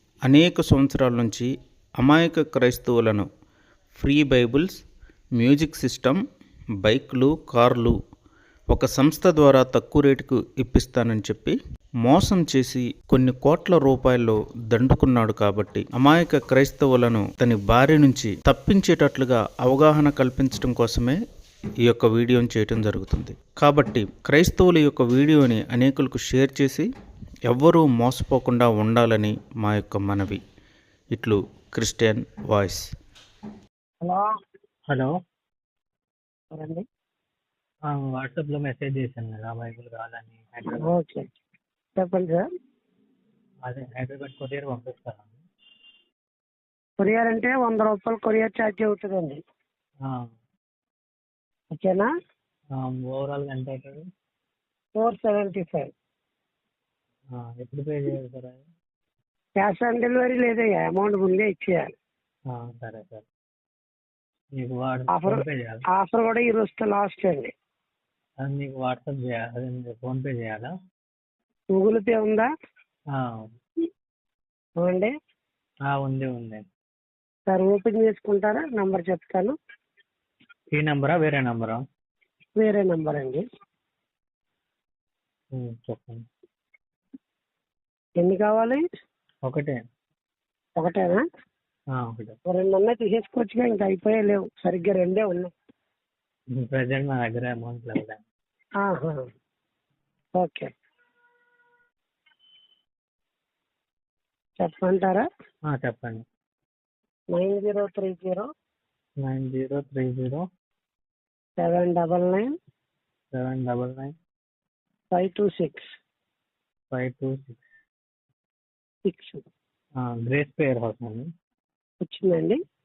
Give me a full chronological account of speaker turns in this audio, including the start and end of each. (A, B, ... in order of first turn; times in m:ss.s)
0:00.3-0:03.3 A
0:04.0-0:04.8 A
0:05.4-0:06.2 A
0:06.8-0:07.9 A
0:08.7-0:21.2 A
0:21.8-0:26.9 A
0:27.5-0:30.4 A
0:31.1-0:32.9 A
0:34.0-0:34.3 B
0:36.5-0:36.8 B
0:37.9-0:40.9 C
0:40.7-0:41.2 B
0:42.0-0:42.5 B
0:43.7-0:45.4 C
0:47.0-0:49.4 B
0:51.7-0:52.1 B
0:52.8-0:54.0 C
0:55.0-0:55.9 B
0:57.4-0:58.6 C
0:59.6-1:01.8 B
1:02.5-1:03.2 C
1:04.6-1:05.8 C
1:05.1-1:05.4 B
1:06.0-1:07.5 B
1:08.4-1:10.7 C
1:11.7-1:12.5 B
1:13.2-1:13.5 C
1:14.8-1:15.1 B
1:15.9-1:16.6 C
1:17.5-1:19.6 B
1:20.8-1:21.8 C
1:22.6-1:23.4 B
1:25.6-1:26.2 C
1:28.2-1:28.8 B
1:29.4-1:29.8 C
1:30.8-1:31.2 B
1:32.0-1:32.4 C
1:32.5-1:35.5 B
1:36.6-1:38.2 C
1:38.8-1:39.2 B
1:40.4-1:40.7 B
1:44.6-1:45.3 B
1:45.7-1:46.2 C
1:47.3-1:48.5 B
1:49.2-1:50.4 C
1:51.6-1:52.5 B
1:53.3-1:54.1 C
1:55.1-1:55.8 B
1:56.9-1:57.6 C
1:59.1-1:59.4 B
2:00.0-2:01.3 C
2:02.0-2:02.6 B